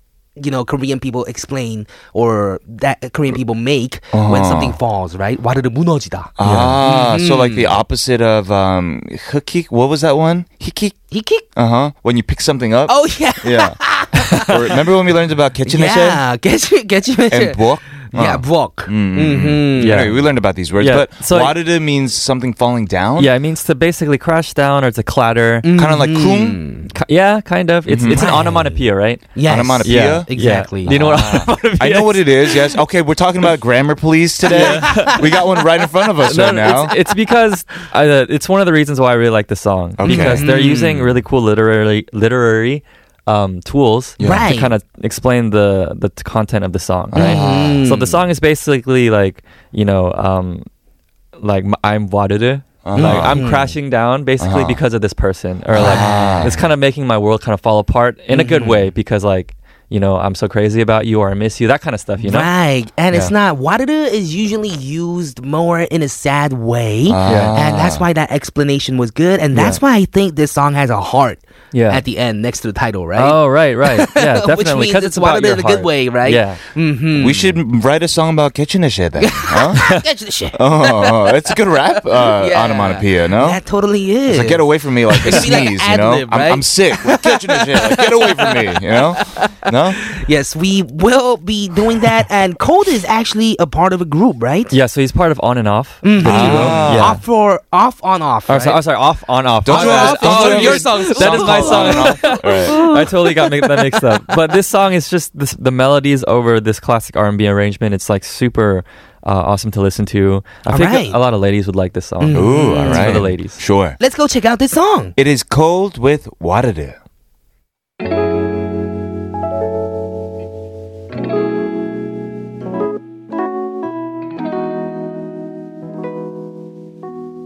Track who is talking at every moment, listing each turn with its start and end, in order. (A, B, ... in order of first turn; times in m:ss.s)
0:00.4-0:07.8 A
0:04.1-0:04.8 B
0:06.4-0:11.0 B
0:06.4-0:06.7 C
0:11.1-0:11.4 A
0:11.5-0:13.8 B
0:12.9-0:14.9 A
0:14.3-0:16.2 B
0:15.6-0:20.2 A
0:17.3-0:23.3 B
0:19.8-0:21.6 C
0:23.2-0:25.7 C
0:25.6-0:26.9 A
0:25.7-0:26.6 B
0:26.9-0:32.5 C
0:27.9-0:28.4 B
0:28.1-0:31.3 A
0:29.4-0:30.3 B
0:30.8-0:36.9 B
0:34.5-0:35.4 A
0:34.5-0:35.2 C
0:36.2-0:50.7 C
0:40.0-0:40.4 B
0:40.0-0:41.1 A
0:44.2-0:44.5 B
0:44.2-0:44.7 A
0:47.1-0:47.9 B
0:47.1-0:48.2 A
0:51.4-1:02.5 C
0:52.8-0:53.5 B
0:52.9-0:53.7 A
0:54.4-0:54.8 B
0:55.7-0:56.6 B
0:55.7-0:56.6 A
0:58.3-0:58.8 A
1:02.2-1:17.6 A
1:07.1-1:08.0 B
1:07.2-1:07.6 C
1:09.5-1:09.8 C
1:11.7-1:12.0 C
1:13.2-1:16.6 C
1:17.1-1:20.0 B
1:19.2-1:29.5 A
1:20.5-1:23.6 B
1:24.2-1:30.0 B
1:30.0-1:34.7 A
1:34.7-1:37.2 C
1:36.0-1:38.8 A
1:36.2-1:37.2 B
1:38.5-1:53.6 C
1:39.6-1:42.9 B
1:39.6-1:44.0 A
1:50.7-1:51.2 A
1:52.2-1:53.3 A
1:52.3-1:54.0 B
1:54.0-1:55.1 A
1:55.2-1:57.0 B